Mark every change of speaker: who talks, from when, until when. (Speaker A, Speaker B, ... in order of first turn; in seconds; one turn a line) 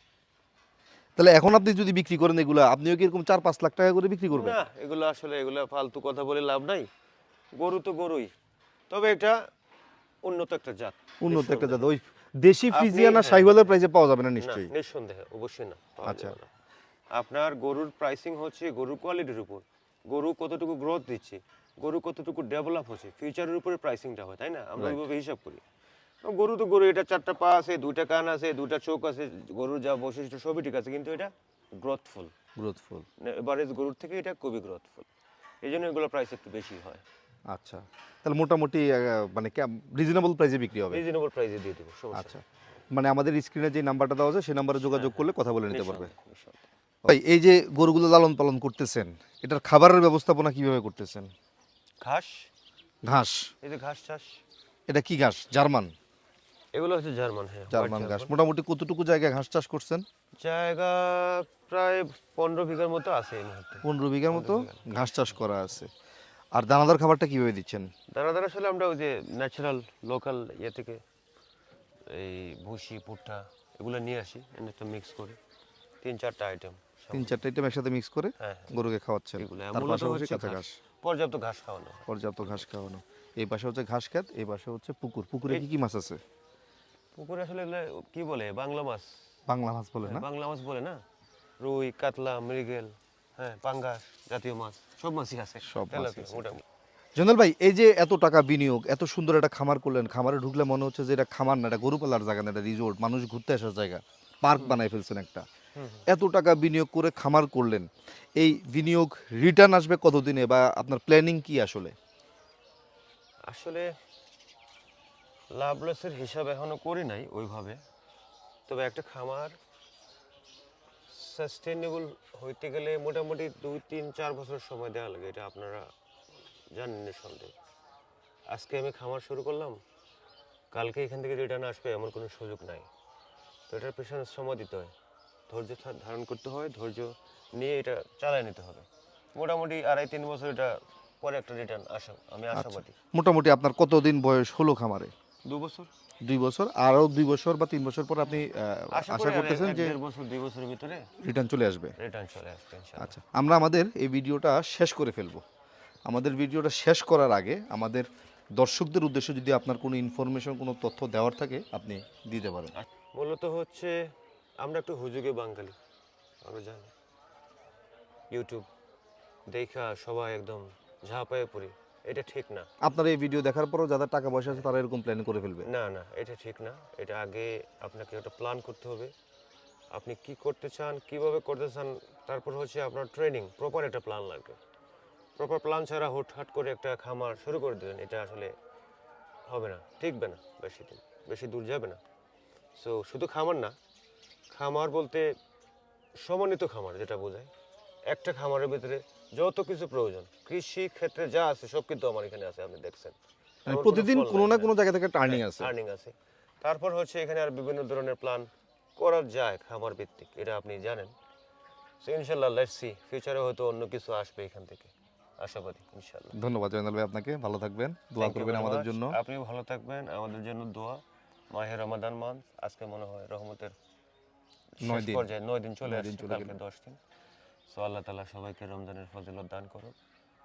Speaker A: 1.2-4.6
Speaker B: 4.3-6.9
Speaker B: 7.6-8.3
Speaker B: 8.9-9.4
Speaker B: 10.2-11.9
Speaker A: 11.2-14.7
Speaker B: 12.7-13.7
Speaker B: 14.4-16.5
Speaker A: 16.0-16.4
Speaker B: 17.1-25.6
Speaker A: 24.8-25.0
Speaker B: 26.2-32.3
Speaker A: 32.6-33.1
Speaker B: 33.2-35.1
Speaker B: 35.6-37.0
Speaker A: 37.5-41.0
Speaker B: 40.9-42.4
Speaker A: 42.1-46.1
Speaker B: 44.9-46.6
Speaker A: 47.0-51.3
Speaker B: 52.0-52.5
Speaker A: 53.0-53.5
Speaker B: 53.6-54.4
Speaker A: 54.9-55.9
Speaker B: 56.7-58.4
Speaker A: 57.7-60.0
Speaker B: 60.4-64.9
Speaker A: 63.8-65.9
Speaker A: 66.6-67.9
Speaker B: 68.1-71.0
Speaker B: 72.1-75.4
Speaker B: 76.0-77.4
Speaker A: 77.1-80.8
Speaker B: 78.4-78.7
Speaker B: 79.4-82.6
Speaker A: 82.1-86.2
Speaker B: 87.1-89.1
Speaker A: 89.5-90.3
Speaker B: 90.0-91.0
Speaker B: 91.6-96.6
Speaker A: 95.7-96.6
Speaker A: 97.2-105.4
Speaker B: 105.8-106.1
Speaker A: 106.1-111.9
Speaker B: 113.5-113.9
Speaker B: 115.5-117.8
Speaker B: 118.7-119.6
Speaker B: 121.1-125.9
Speaker B: 126.7-127.5
Speaker B: 128.5-129.8
Speaker B: 130.7-132.9
Speaker B: 133.7-134.9
Speaker B: 135.5-142.9
Speaker A: 142.5-145.1
Speaker B: 145.4-145.9
Speaker A: 146.2-150.0
Speaker B: 148.9-151.1
Speaker A: 151.2-151.9
Speaker B: 152.0-153.1
Speaker A: 153.0-155.4
Speaker A: 156.1-162.7
Speaker B: 162.7-163.9
Speaker B: 164.6-165.8
Speaker B: 166.4-166.9
Speaker B: 168.3-168.7
Speaker B: 169.5-172.7
Speaker A: 172.8-175.7
Speaker B: 175.6-179.1
Speaker B: 179.9-184.6
Speaker B: 185.4-188.5
Speaker B: 189.5-192.0
Speaker B: 192.8-193.7
Speaker B: 194.5-195.3
Speaker B: 196.2-197.5
Speaker B: 198.1-203.2
Speaker A: 203.7-205.7
Speaker B: 203.7-204.7
Speaker B: 205.2-211.1
Speaker B: 212.0-216.4
Speaker A: 216.4-219.2
Speaker B: 218.2-223.7
Speaker B: 224.8-227.0
Speaker A: 224.8-225.3
Speaker A: 225.8-226.5
Speaker B: 227.7-229.9